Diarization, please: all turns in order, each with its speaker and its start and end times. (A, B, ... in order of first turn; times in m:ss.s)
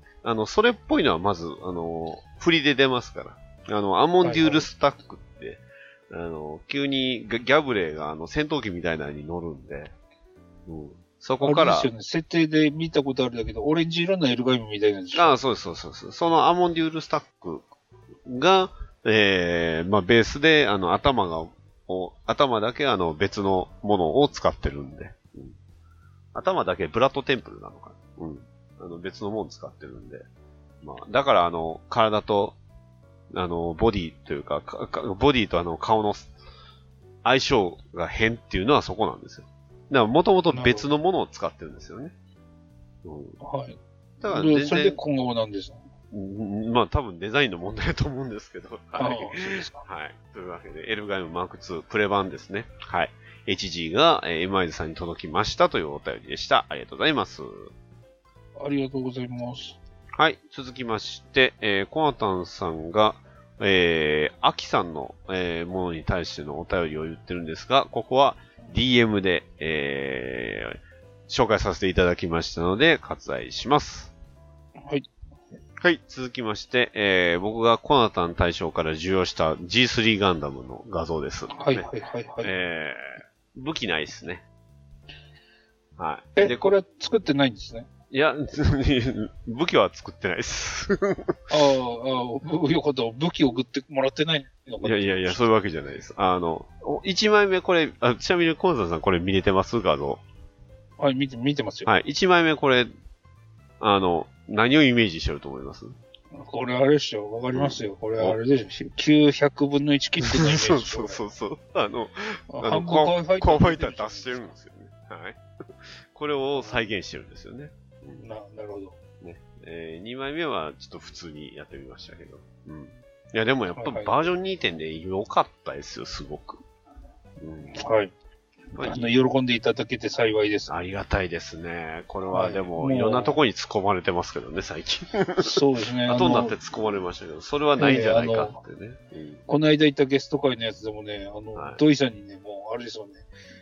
0:00.2-0:09.9 A
0:04.2-0:04.7 B
0:10.6-0:11.9 A
0:11.4-0:15.3 B
0:15.1-0:17.6 A
0:18.2-0:25.6 A
0:26.3-0:30.2 A
0:30.8-0:32.6 A
0:33.3-0:36.3 A
0:37.2-0:42.1 A
0:40.5-0:40.9 B
0:43.0-0:43.4 A
0:43.4-0:45.8 B
0:44.2-0:45.0 A
0:46.1-0:57.7 A
0:49.0-0:49.8 B
0:58.6-0:59.8 B
1:00.2-1:14.1 A
1:15.8-1:21.9 A
1:21.5-1:22.5 B
1:22.4-1:24.4 A
1:26.0-1:26.8 A
1:26.4-1:27.9 B
1:28.1-1:31.4 A
1:31.5-1:35.5 B
1:34.8-1:40.2 A
1:41.0-1:41.9 B
1:41.8-1:42.9 A
1:43.8-1:45.9 A
1:46.3-1:51.2 B
1:47.5-1:48.4 A
1:50.2-1:58.2 A
1:52.5-1:54.4 B
1:56.6-1:56.8 B
1:58.2-1:59.0 B
1:59.2-2:06.6 A
2:03.8-2:04.1 B
2:07.4-2:07.8 A
2:07.8-2:08.1 B
2:08.7-2:09.1 A
2:08.8-2:10.7 B
2:10.7-2:19.4 A
2:12.3-2:13.4 B
2:15.4-2:16.5 B
2:17.8-2:18.6 B
2:19.5-2:23.2 B